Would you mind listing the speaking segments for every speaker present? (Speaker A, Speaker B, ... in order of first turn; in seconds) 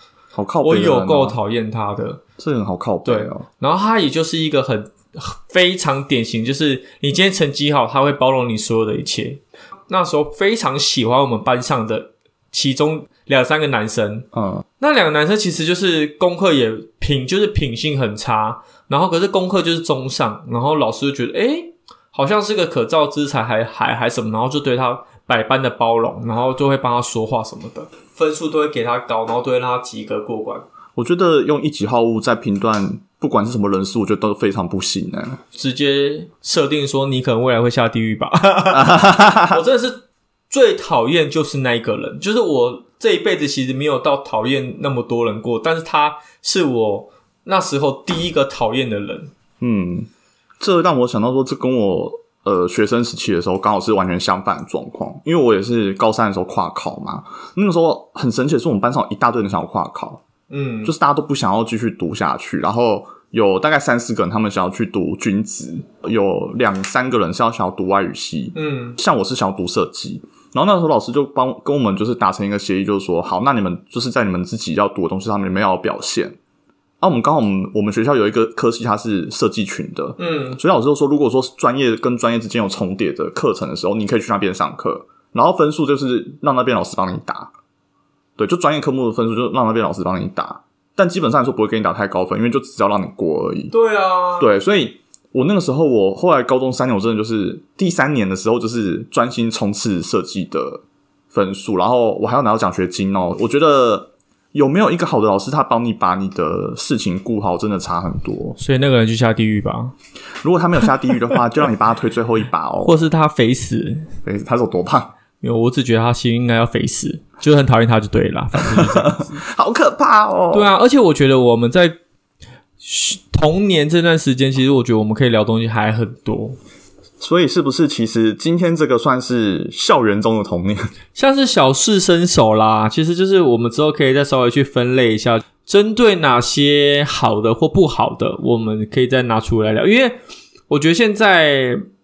Speaker A: 0.3-1.4, 2.4-3.5, 14.3-14.6, 30.9-35.4, 38.7-39.6, 49.6-50.1, 50.6-60.2, 60.8-76.3, 77.0-87.5, 88.4-93.7, 94.4-108.6, 110.4-113.0, 114.2-115.1, 118.6-120.7, 127.2-130.9
Speaker B: 0.6-2.2, 3.0-14.3, 14.8-30.6, 35.5-49.3, 60.5-60.9, 68.5-69.0, 80.2-80.6, 93.7-94.5, 108.6-109.9, 112.8-114.1, 115.4-119.4, 120.5-122.0, 122.8-126.6, 131.1-140.2, 140.7-141.8